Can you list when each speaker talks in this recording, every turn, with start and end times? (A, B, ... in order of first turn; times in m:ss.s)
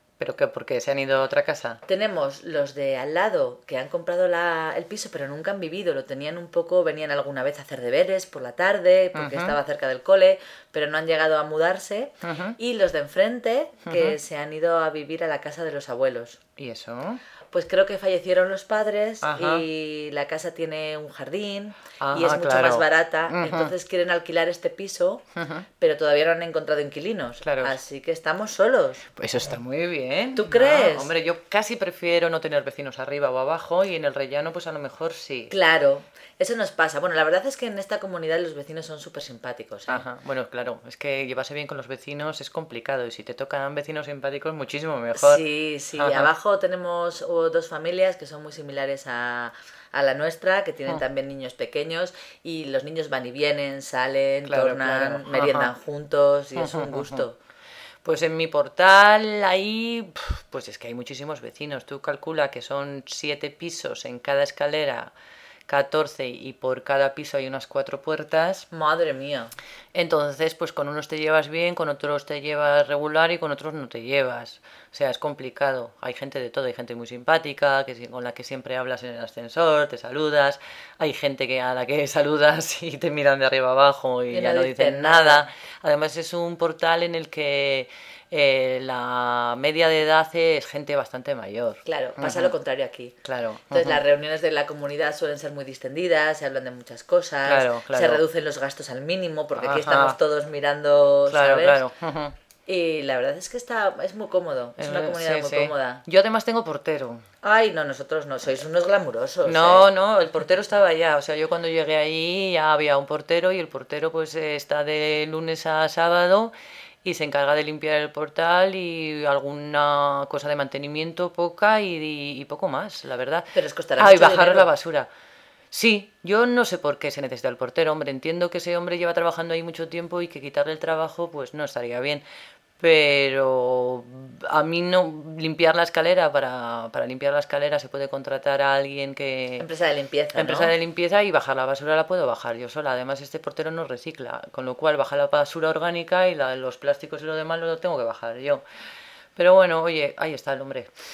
0:00.2-0:01.8 A
0:01.9-0:16.4 B
0:09.1-0:09.6 A
0:12.2-0:12.6 A
0:13.9-0:14.2 A
0:16.6-0:17.2 A
0:17.5-0:25.2 B
0:19.2-0:19.6 A
0:22.0-0:23.7 A
0:25.4-0:25.6 A
0:25.8-0:29.1 B
0:27.4-0:27.8 A
0:29.2-0:35.5 A
0:30.4-0:31.1 B
0:35.5-0:40.0 B
0:39.9-0:45.4 A
0:45.2-0:57.4 B
0:46.0-0:46.3 A
0:54.4-0:55.7 A
0:56.6-0:57.3 A
0:58.0-1:05.1 A
1:05.7-1:08.7 A
1:08.7-1:09.5 B
1:09.9-1:32.5 A
1:24.3-1:25.4 B
1:31.8-1:33.2 B
1:33.2-1:34.0 A
1:33.7-1:41.8 B
1:37.5-1:38.2 A
1:39.6-1:40.2 A
1:41.3-1:42.4 A
1:42.7-1:46.0 B
1:44.8-1:47.2 A
1:47.4-1:49.9 B
1:49.4-2:05.1 A
2:03.5-2:04.7 B
2:05.7-2:12.2 A
2:12.8-2:19.7 A
2:19.6-2:20.8 B
2:20.4-2:28.6 A
2:29.4-2:30.9 A